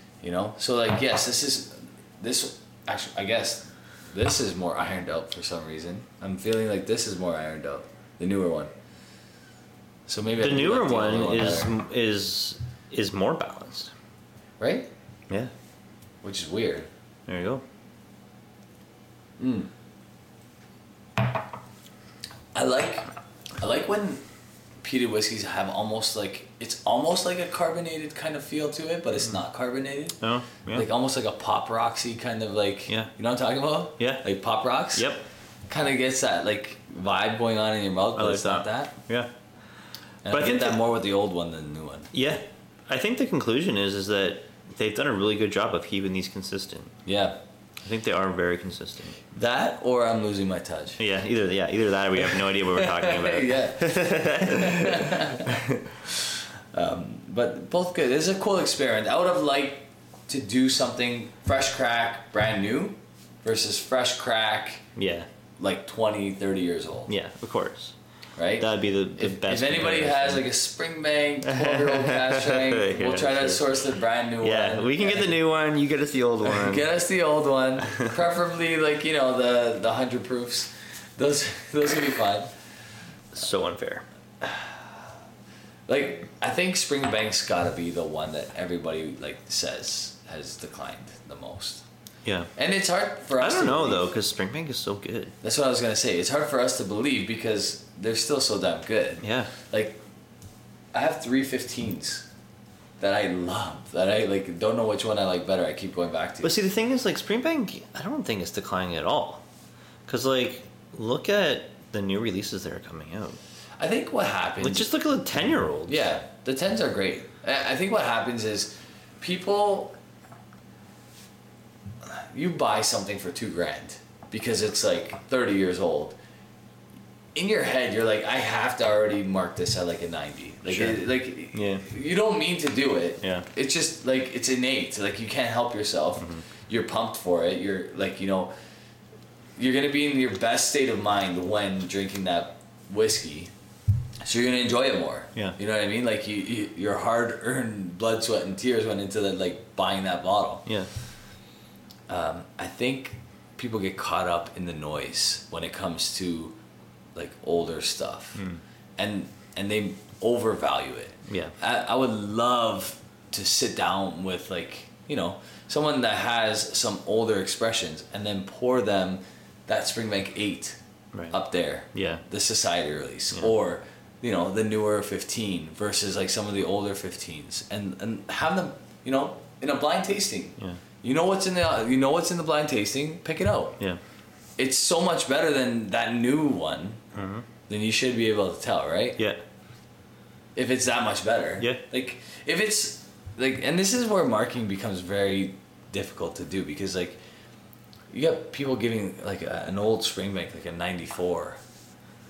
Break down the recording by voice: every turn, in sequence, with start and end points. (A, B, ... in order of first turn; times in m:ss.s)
0:00.2-0:08.7 A
0:10.1-0:11.8 A
0:10.4-0:13.9 B
0:14.6-0:14.9 A
0:16.2-0:16.9 A
0:17.3-0:17.6 B
0:19.4-0:19.7 A
0:22.5-0:24.2 A
0:24.8-0:30.2 A
0:30.2-0:30.9 B
0:30.7-0:35.1 A
0:34.0-0:34.2 B
0:34.9-0:35.2 B
0:35.7-0:39.0 A
0:38.2-0:39.3 B
0:40.2-0:42.1 A
0:40.3-0:40.8 B
0:42.1-0:47.0 B
0:47.1-0:47.4 A
0:47.8-0:49.2 B
0:49.3-0:51.0 A
0:51.0-0:55.8 B
0:52.3-1:04.8 A
1:05.0-1:05.3 B
1:05.6-1:07.1 A
1:07.1-1:08.0 B
1:08.4-1:15.4 A
1:08.6-1:10.5 B
1:11.5-1:13.7 B
1:14.4-1:16.9 B
1:16.4-1:22.5 A
1:17.9-1:18.1 B
1:23.3-1:24.0 B
1:24.4-1:25.0 A
1:25.9-1:31.8 A
1:32.2-1:32.5 B
1:32.6-1:34.1 A
1:33.4-1:35.3 B
1:35.4-1:40.0 A
1:39.2-1:39.5 B
1:40.9-1:42.3 A
1:43.0-1:46.6 A
1:46.4-1:49.4 B
1:50.1-1:53.4 B
1:53.8-1:54.9 A
1:54.6-1:56.1 B
1:55.9-2:00.0 A
2:02.0-2:06.2 A
2:07.4-2:18.5 A
2:10.7-2:11.0 B
2:11.5-2:11.9 B
2:13.2-2:13.5 B
2:16.2-2:16.5 B
2:19.6-2:23.5 A
2:24.2-2:30.6 A
2:32.1-2:36.6 A
2:37.2-2:38.4 A
2:39.0-2:50.8 A
2:41.3-2:41.6 B
2:51.3-3:03.8 A
2:51.9-2:52.2 B
3:04.6-3:07.0 A
3:07.1-3:07.4 B
3:07.7-3:09.2 A
3:10.6-3:17.2 A
3:18.1-3:21.6 A